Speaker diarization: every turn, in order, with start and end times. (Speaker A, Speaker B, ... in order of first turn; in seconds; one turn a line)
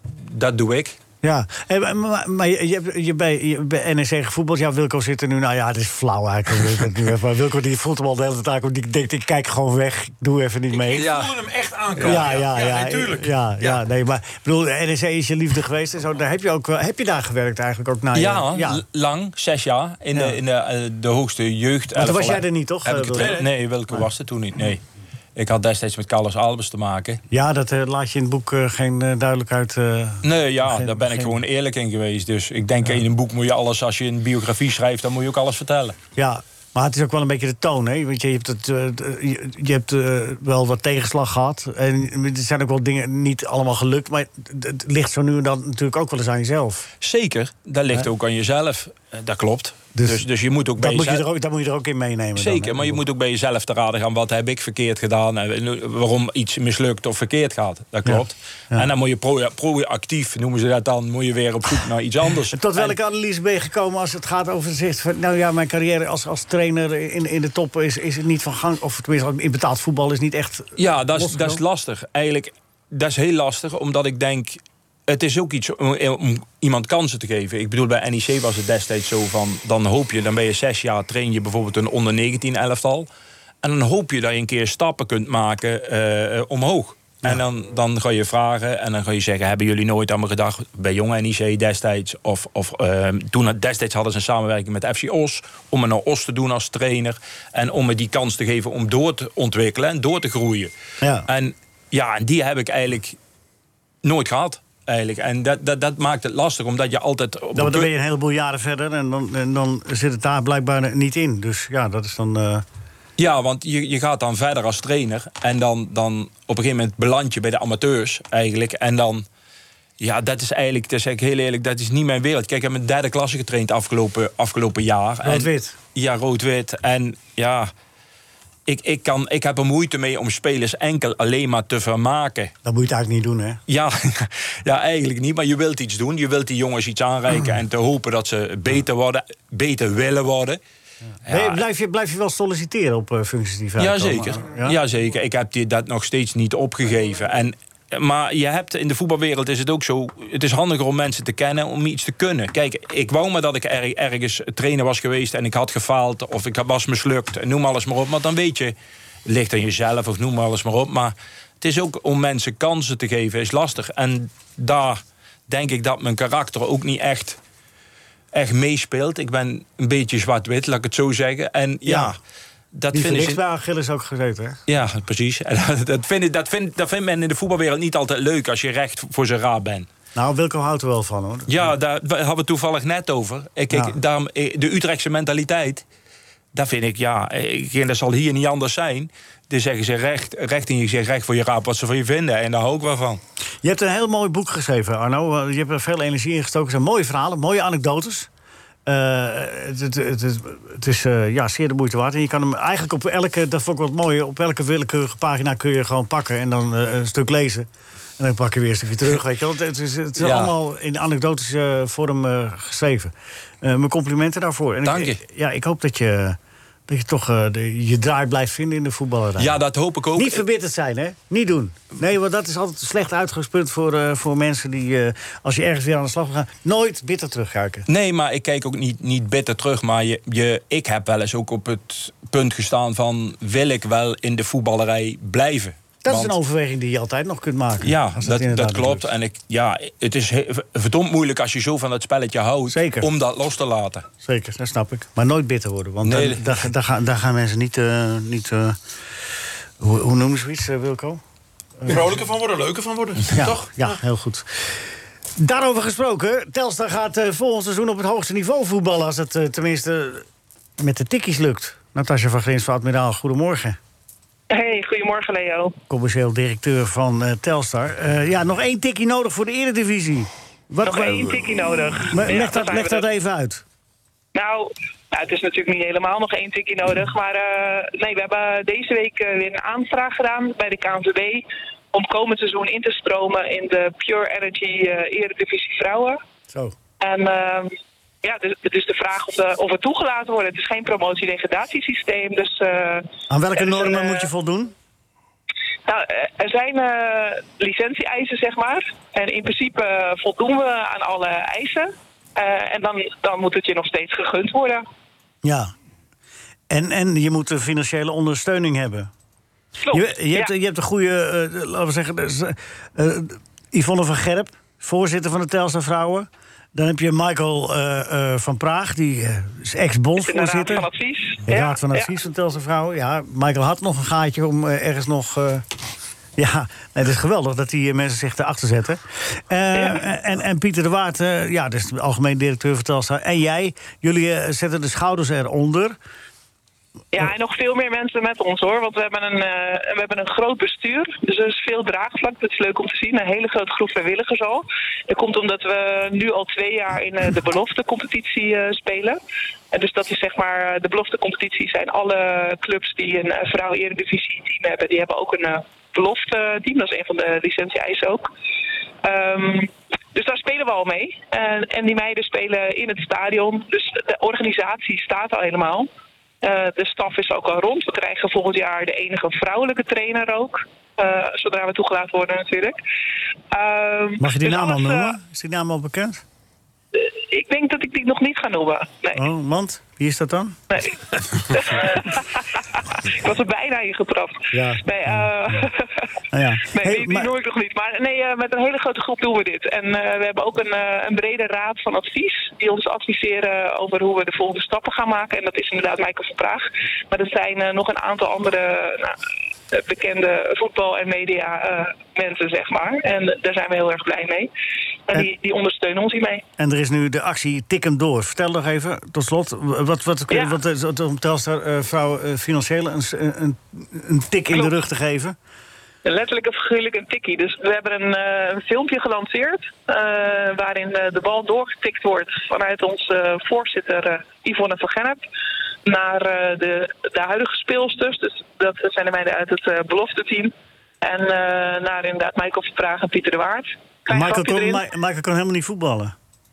Speaker A: 0.2-1.0
Speaker B: 1.2-11.1
Speaker C: 10.7-13.8
Speaker A: 10.9-11.3
Speaker B: 12.0-18.8
Speaker A: 12.0-12.3
Speaker A: 18.1-24.8
Speaker B: 20.1-20.4
Speaker B: 22.0-24.0
Speaker C: 23.2-23.4
Speaker A: 25.4-27.2
Speaker B: 27.3-31.4
Speaker A: 30.2-36.0
Speaker B: 36.2-46.9
Speaker A: 47.0-51.2
Speaker B: 50.0-50.2
Speaker B: 50.8-53.0
Speaker A: 52.4-63.0
Speaker B: 58.1-58.9
Speaker B: 62.5-71.6
Speaker A: 70.8-83.1
Speaker A: 83.6-100.7
Speaker B: 101.0-101.3
Speaker A: 101.3-103.2
Speaker A: 104.0-107.9
Speaker B: 107.5-112.6
Speaker A: 113.2-119.3
Speaker A: 120.0-127.7
Speaker B: 125.2-125.8
Speaker A: 128.7-132.5
Speaker B: 132.6-133.6
Speaker A: 133.7-140.6
Speaker A: 141.3-141.6
Speaker B: 141.3-144.8
Speaker A: 143.8-158.8
Speaker A: 159.3-167.4
Speaker A: 168.3-172.2
Speaker B: 171.8-172.1
Speaker A: 172.7-173.4
Speaker B: 172.9-174.6
Speaker A: 174.7-179.9
Speaker B: 180.2-181.7
Speaker A: 181.5-185.8
Speaker B: 183.7-184.0
Speaker A: 186.5-193.2
Speaker B: 193.6-198.3
Speaker B: 198.9-207.7
Speaker B: 208.2-219.6
Speaker A: 210.2-210.5
Speaker A: 214.8-215.2
Speaker A: 219.4-220.4
Speaker B: 220.2-227.9
Speaker A: 227.9-236.4
Speaker B: 236.0-239.1
Speaker A: 237.8-244.1
Speaker B: 242.7-243.1
Speaker B: 244.2-248.8
Speaker A: 246.0-246.5
Speaker B: 249.8-251.2
Speaker C: 251.9-253.9
Speaker B: 253.3-254.8
Speaker B: 255.4-260.2
Speaker B: 260.8-263.8
Speaker D: 264.5-265.8
Speaker B: 265.9-271.4
Speaker D: 270.8-273.0
Speaker B: 272.1-273.6
Speaker D: 274.4-286.2
Speaker B: 286.5-286.8
Speaker D: 287.0-294.3
Speaker B: 293.3-294.7
Speaker D: 295.9-304.8
Speaker B: 305.4-305.7
Speaker B: 306.7-309.1
Speaker D: 309.9-310.5
Speaker B: 309.9-320.9
Speaker D: 320.2-322.1
Speaker B: 321.5-325.6
Speaker B: 326.4-336.0
Speaker D: 329.7-330.1
Speaker D: 337.1-349.2
Speaker D: 349.7-358.3
Speaker D: 359.0-365.9
Speaker D: 366.4-372.8
Speaker D: 373.5-375.1
Speaker B: 374.2-376.2
Speaker D: 376.9-379.2
Speaker B: 379.1-380.6
Speaker D: 380.7-386.1
Speaker B: 384.5-385.7
Speaker B: 386.3-387.3
Speaker D: 386.7-399.2
Speaker D: 399.7-404.5
Speaker D: 405.1-406.4
Speaker B: 406.6-415.4
Speaker D: 410.3-410.6
Speaker D: 416.1-425.2
Speaker D: 425.9-434.8
Speaker B: 434.1-436.1